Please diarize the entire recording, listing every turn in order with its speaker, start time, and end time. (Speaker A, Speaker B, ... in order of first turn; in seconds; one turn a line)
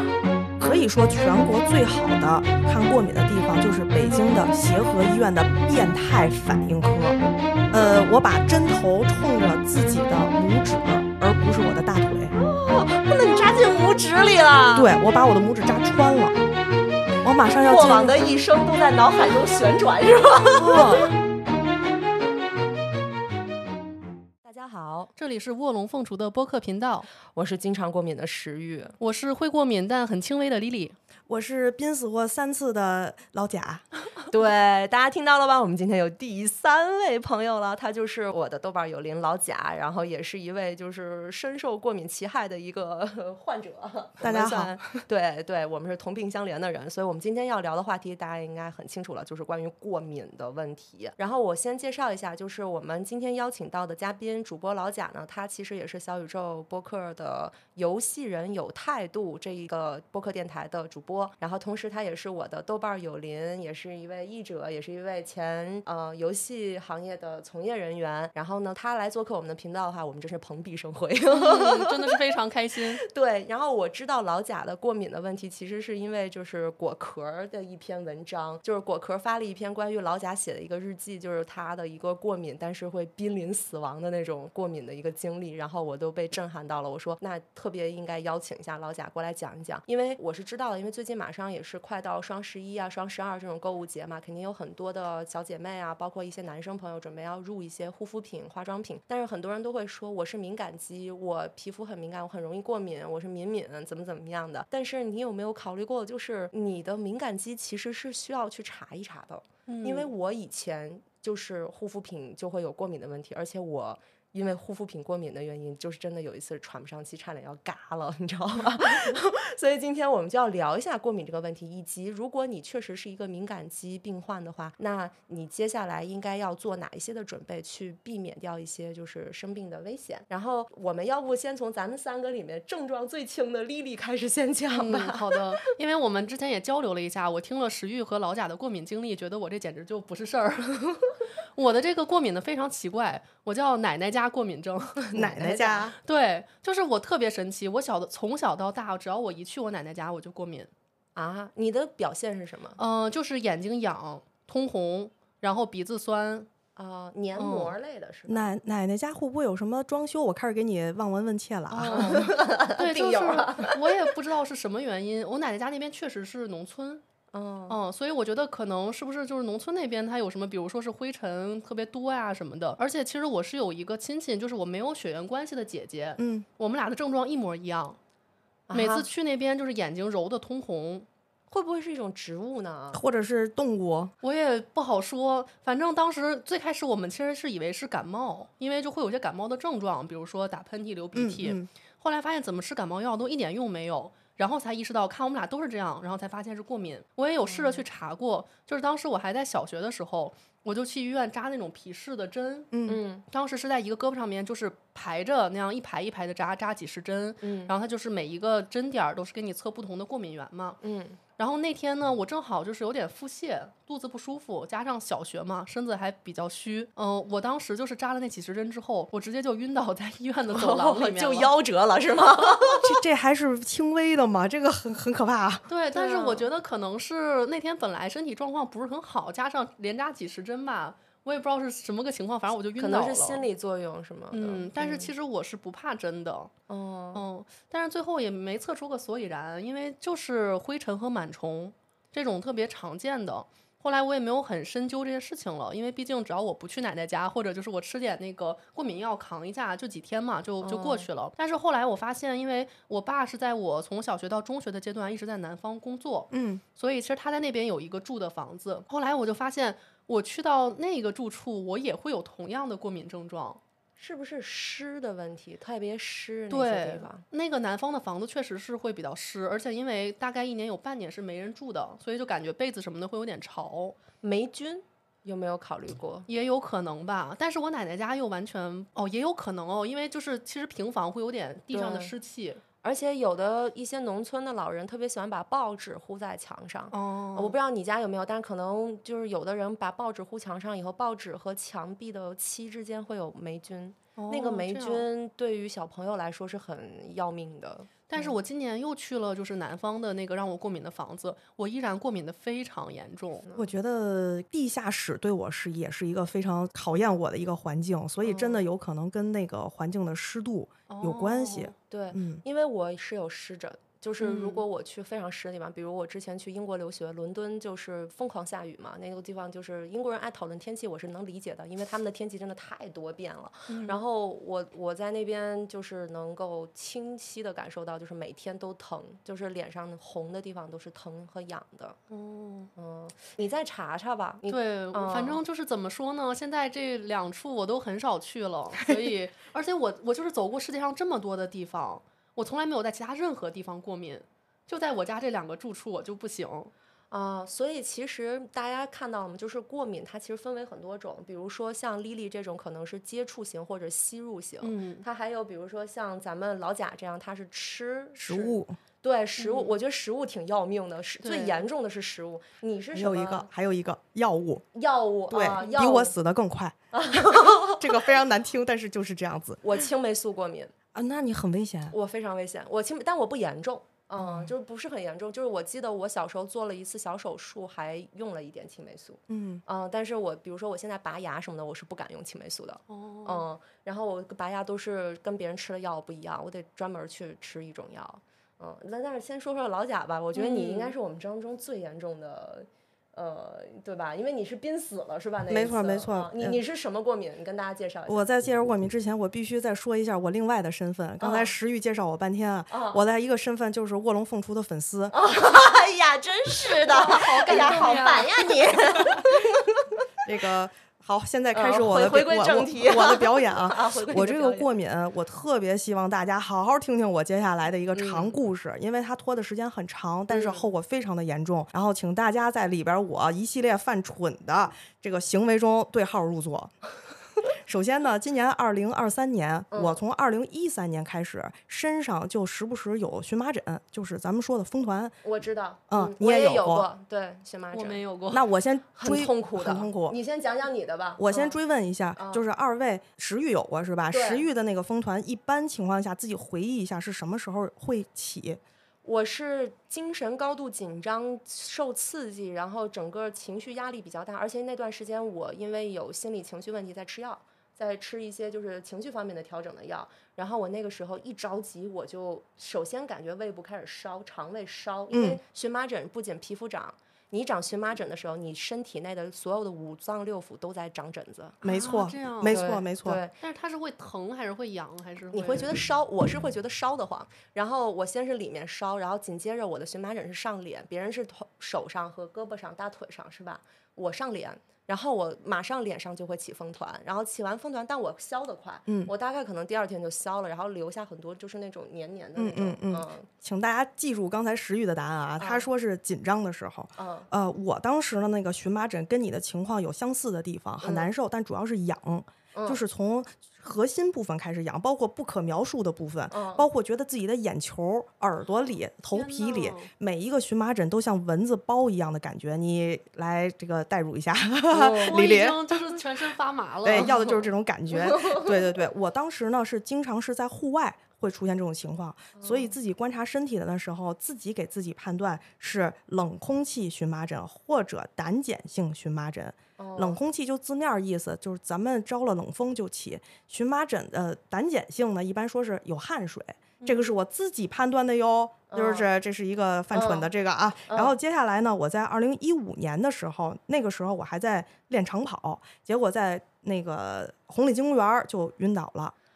Speaker A: 0.6-7.2
Speaker A: 7.7-12.3
Speaker B: 12.3-14.9
Speaker A: 14.7-16.4
Speaker A: 17.2-18.2
Speaker B: 17.7-21.1
Speaker A: 20.6-21.1
Speaker B: 24.4-25.1
Speaker C: 25.2-27.1
Speaker B: 27.3-28.9
Speaker C: 29.0-30.9
Speaker A: 31.3-33.9
Speaker B: 34.3-72.1
Speaker A: 44.2-45.0
Speaker C: 71.3-73.0
Speaker B: 73.0-135.4
Speaker C: 109.7-110.1
Speaker C: 134.7-141.0
Speaker C: 141.6-145.0
Speaker B: 145.0-145.9
Speaker A: 145.1-146.0
Speaker C: 146.0-150.7
Speaker B: 151.1-152.8
Speaker C: 152.8-156.5
Speaker B: 156.8-158.5
Speaker C: 157.3-157.7
Speaker A: 158.3-162.3
Speaker B: 161.7-163.8
Speaker C: 161.9-167.0
Speaker B: 167.3-167.8
Speaker C: 167.7-178.0
Speaker A: 176.2-176.4
Speaker B: 178.7-179.1
Speaker C: 178.7-181.1
Speaker B: 181.5-183.0
Speaker A: 182.9-184.1
Speaker C: 184.2-210.8
Speaker A: 191.1-191.7
Speaker B: 197.4-197.8
Speaker A: 202.7-203.0
Speaker B: 202.9-203.2
Speaker B: 207.4-207.7
Speaker B: 210.8-211.2
Speaker C: 211.4-221.5
Speaker B: 220.5-222.9
Speaker A: 222.8-225.7
Speaker C: 225.7-233.4
Speaker B: 225.9-226.5
Speaker B: 232.8-235.1
Speaker C: 234.3-236.5
Speaker B: 236.7-237.2
Speaker C: 237.1-263.6
Speaker B: 250.6-251.1
Speaker A: 256.3-256.6
Speaker B: 264.0-267.2
Speaker C: 266.5-274.0
Speaker B: 274.2-276.3
Speaker C: 276.3-282.6
Speaker B: 281.7-282.1
Speaker B: 282.8-298.4
Speaker C: 286.9-287.6
Speaker C: 294.1-295.1
Speaker C: 298.1-303.4
Speaker A: 303.6-312.4
Speaker B: 308.2-308.6
Speaker C: 310.9-311.7
Speaker B: 311.9-332.0
Speaker C: 314.2-314.6
Speaker C: 323.7-324.0
Speaker C: 332.1-332.7
Speaker B: 332.8-335.4
Speaker C: 334.5-346.7
Speaker B: 347.1-363.5
Speaker C: 354.6-355.0
Speaker A: 358.2-358.8
Speaker C: 359.4-359.8
Speaker C: 361.2-361.6
Speaker A: 362.9-364.6
Speaker B: 364.7-366.1
Speaker A: 365.3-369.6
Speaker B: 366.9-368.1
Speaker B: 369.6-370.7
Speaker A: 370.9-371.9
Speaker B: 371.9-398.3
Speaker A: 374.2-374.5
Speaker A: 379.3-379.6
Speaker C: 382.9-383.4
Speaker C: 390.3-390.9
Speaker A: 395.5-396.6
Speaker A: 398.1-405.1
Speaker B: 401.2-401.5
Speaker B: 402.7-403.0
Speaker B: 405.1-409.9
Speaker C: 406.9-408.6
Speaker A: 410.2-426.7
Speaker B: 411.5-414.7
Speaker B: 417.9-418.4
Speaker B: 420.3-420.6
Speaker A: 427.5-435.2
Speaker B: 429.7-430.0
Speaker B: 435.2-438.0
Speaker A: 435.9-436.9
Speaker C: 437.7-438.4
Speaker A: 438.3-440.1
Speaker B: 438.9-441.6
Speaker A: 441.2-448.6
Speaker B: 442.2-442.4
Speaker B: 444.1-444.4
Speaker B: 449.0-471.6
Speaker A: 465.1-465.4
Speaker A: 471.6-473.2
Speaker C: 471.6-472.7
Speaker B: 472.5-473.3
Speaker C: 473.4-475.7
Speaker B: 475.3-493.3
Speaker A: 492.4-516.0
Speaker B: 495.4-495.7
Speaker B: 496.9-497.3
Speaker B: 500.8-501.1
Speaker B: 502.5-502.8
Speaker B: 506.3-506.7
Speaker C: 509.1-509.9
Speaker B: 514.7-515.3
Speaker C: 515.0-517.4
Speaker A: 516.8-549.1
Speaker B: 516.9-517.3
Speaker B: 517.9-518.5
Speaker B: 522.3-522.7
Speaker B: 529.8-530.2
Speaker C: 536.8-537.1
Speaker B: 538.7-539.1
Speaker B: 539.9-540.3
Speaker B: 540.9-541.1